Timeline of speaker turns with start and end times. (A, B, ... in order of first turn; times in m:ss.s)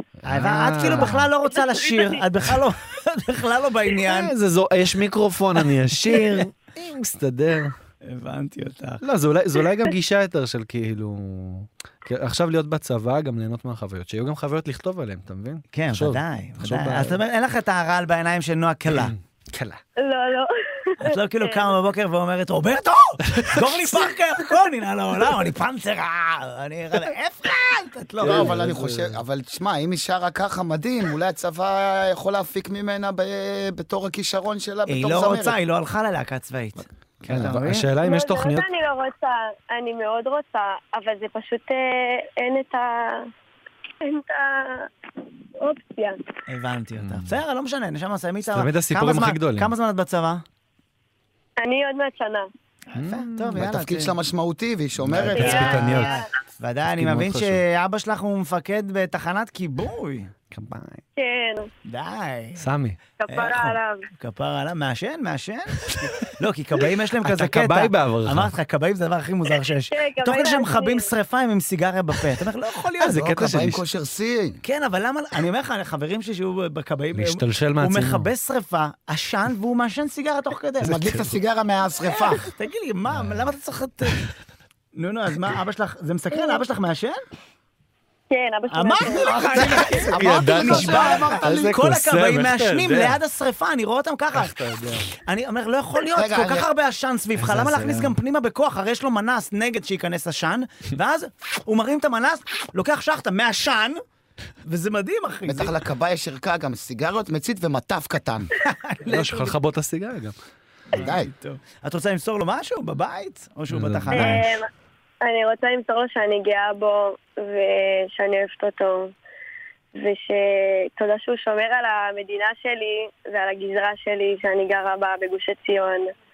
0:00.2-0:01.3 A
0:00.2-0:04.3 B
0:01.6-0:02.2 C
0:04.0-0:07.7 A
0:08.0-0:09.0 B
0:09.0-0:17.2 A
0:15.7-0:19.1 B
0:18.9-0:19.8 A
0:20.0-0:21.7 C
0:21.0-0:28.6 B
0:23.3-0:23.6 A
0:28.2-0:29.2 A
0:28.2-0:35.6 D
0:34.9-0:37.9 B
0:37.2-0:38.6 A
0:38.0-0:43.3 C
0:44.0-0:44.9 C
0:45.6-0:46.2 C
0:46.5-0:50.4 B
0:47.0-0:47.3 A
0:48.5-0:49.7 A
0:51.6-0:52.5 C
0:52.9-0:54.1 B
0:53.0-0:53.6 A
0:53.6-0:55.7 D
0:55.0-0:56.2 A
0:55.1-1:00.3 B
0:55.3-0:56.3 C
0:56.8-0:57.6 A
1:00.5-1:01.0 A
1:01.2-1:01.7 C
1:01.8-1:02.6 B
1:02.6-1:03.0 A
1:03.2-1:04.0 C
1:03.3-1:13.4 B
1:07.2-1:08.5 A
1:09.9-1:11.1 C
1:13.0-1:13.8 A
1:13.0-1:14.6 D
1:14.6-1:20.9 B
1:17.1-1:18.3 A
1:20.8-1:21.3 A
1:20.8-1:22.5 D
1:22.5-1:24.2 B
1:23.1-1:23.5 A
1:24.9-1:27.2 B
1:28.3-1:29.4 C
1:28.7-1:34.5 B
1:29.1-1:31.8 D
1:29.6-1:33.2 A
1:34.3-1:35.1 A
1:35.1-1:44.0 B
1:36.1-1:36.7 D
1:37.4-1:38.2 A
1:44.6-1:45.7 B
1:45.4-1:48.5 D
1:48.6-1:49.5 B
1:49.0-1:50.3 A
1:50.9-1:54.4 B
1:50.9-1:51.3 D
1:53.7-1:54.5 A
1:54.1-1:54.7 C
1:55.2-1:59.1 C
1:59.9-2:06.1 C